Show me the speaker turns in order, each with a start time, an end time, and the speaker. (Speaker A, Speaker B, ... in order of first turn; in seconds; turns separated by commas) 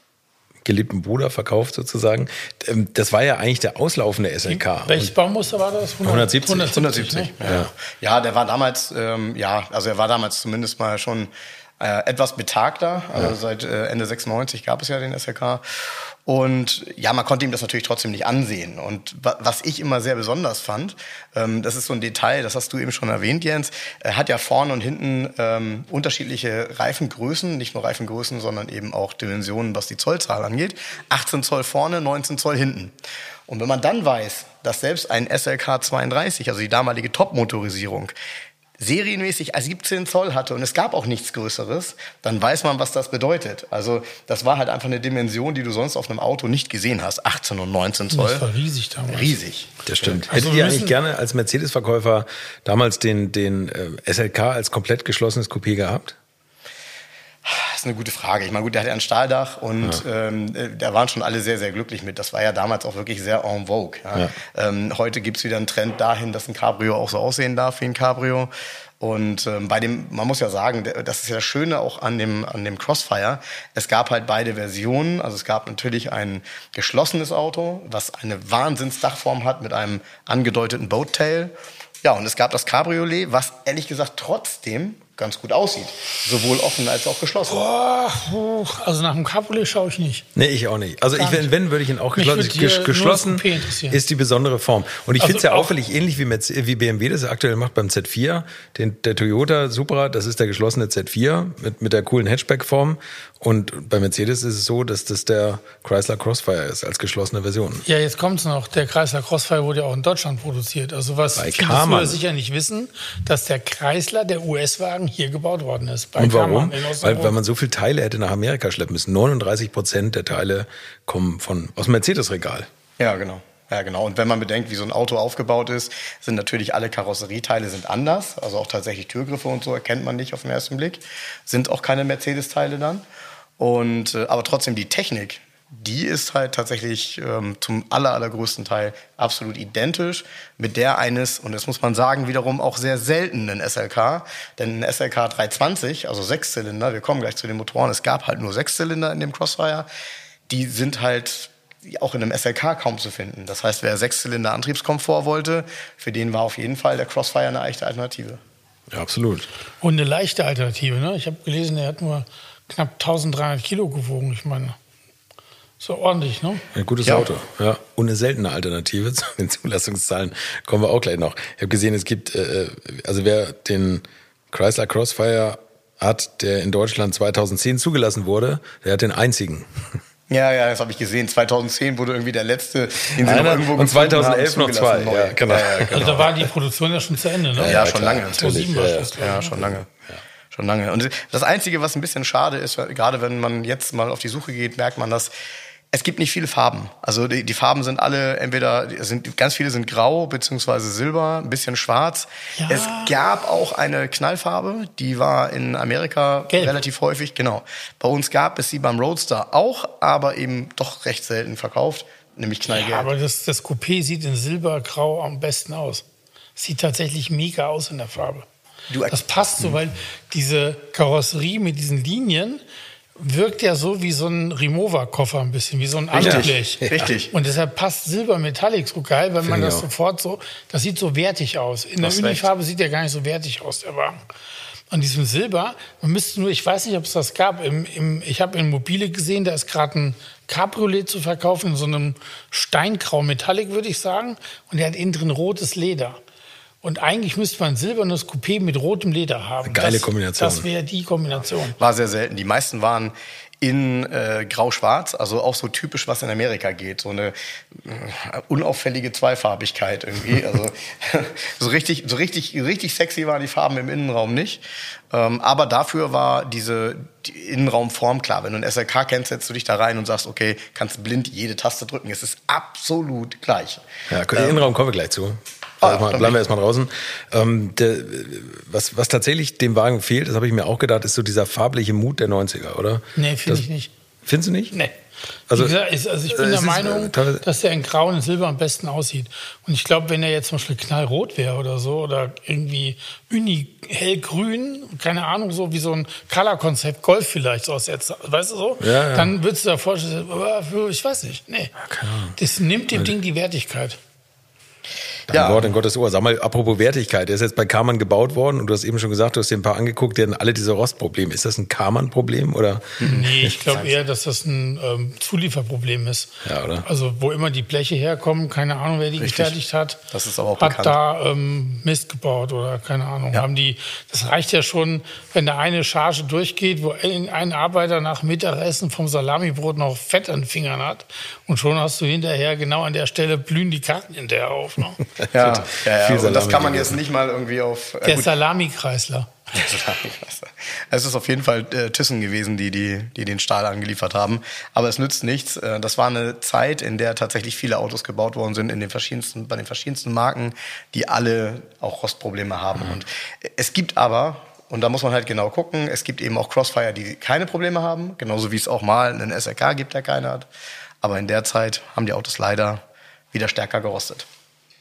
Speaker A: 0.7-5.1, Speaker B: 4.5-7.3, Speaker A: 6.0-6.8, Speaker C: 6.8-32.9, Speaker A: 7.4-7.7, Speaker C: 33.5-38.1, Speaker C: 38.8-48.5, Speaker B: 48.1-49.4, Speaker C: 49.1-50.3, Speaker A: 49.9-56.2, Speaker B: 50.3-51.0, Speaker C: 57.5-87.6, Speaker B: 87.5-90.2, Speaker A: 90.3-107.8, Speaker B: 91.2-91.5, Speaker B: 92.2-94.0, Speaker B: 95.2-95.7, Speaker B: 107.8-117.4, Speaker A: 111.4-112.2, Speaker A: 116.2-122.7, Speaker C: 123.0-133.0, Speaker C: 133.6-149.9, Speaker C: 150.5-158.4, Speaker A: 158.9-159.5, Speaker B: 159.8-164.8, Speaker B: 165.8-166.7, Speaker A: 166.7-180.0, Speaker C: 167.0-167.3, Speaker C: 180.3-186.3, Speaker A: 183.2-186.3, Speaker B: 185.9-189.5, Speaker A: 187.6-190.2, Speaker C: 187.6-188.6, Speaker C: 189.1-189.9, Speaker C: 190.5-195.3, Speaker C: 195.9-213.1, Speaker B: 202.6-203.1, Speaker B: 212.7-216.1, Speaker B: 216.6-218.5, Speaker C: 218.9-219.8, Speaker B: 219.1-222.6, Speaker B: 223.2-234.2, Speaker C: 226.1-227.3, Speaker A: 226.2-227.1, Speaker A: 229.4-229.8, Speaker C: 232.0-232.5, Speaker B: 234.9-246.2, Speaker B: 246.8-251.8, Speaker A: 249.6-250.7, Speaker C: 251.8-274.6, Speaker A: 274.1-283.6, Speaker C: 275.8-276.4, Speaker B: 283.2-283.9, Speaker A: 284.2-284.8, Speaker A: 285.5-285.8, Speaker B: 285.5-301.7, Speaker A: 286.3-287.4, Speaker A: 298.8-299.3, Speaker A: 301.8-302.4, Speaker B: 302.4-304.0, Speaker A: 305.3-313.1, Speaker C: 305.3-305.7, Speaker C: 313.0-313.9, Speaker B: 313.1-316.3, Speaker A: 316.4-316.8, Speaker B: 316.8-320.0, Speaker C: 319.2-319.6, Speaker C: 320.1-321.0, Speaker B: 320.6-335.0, Speaker A: 335.2-337.0, Speaker C: 335.3-338.3, Speaker B: 338.0-339.3, Speaker C: 339.5-360.5, Speaker C: 361.0-362.8, Speaker C: 363.3-364.3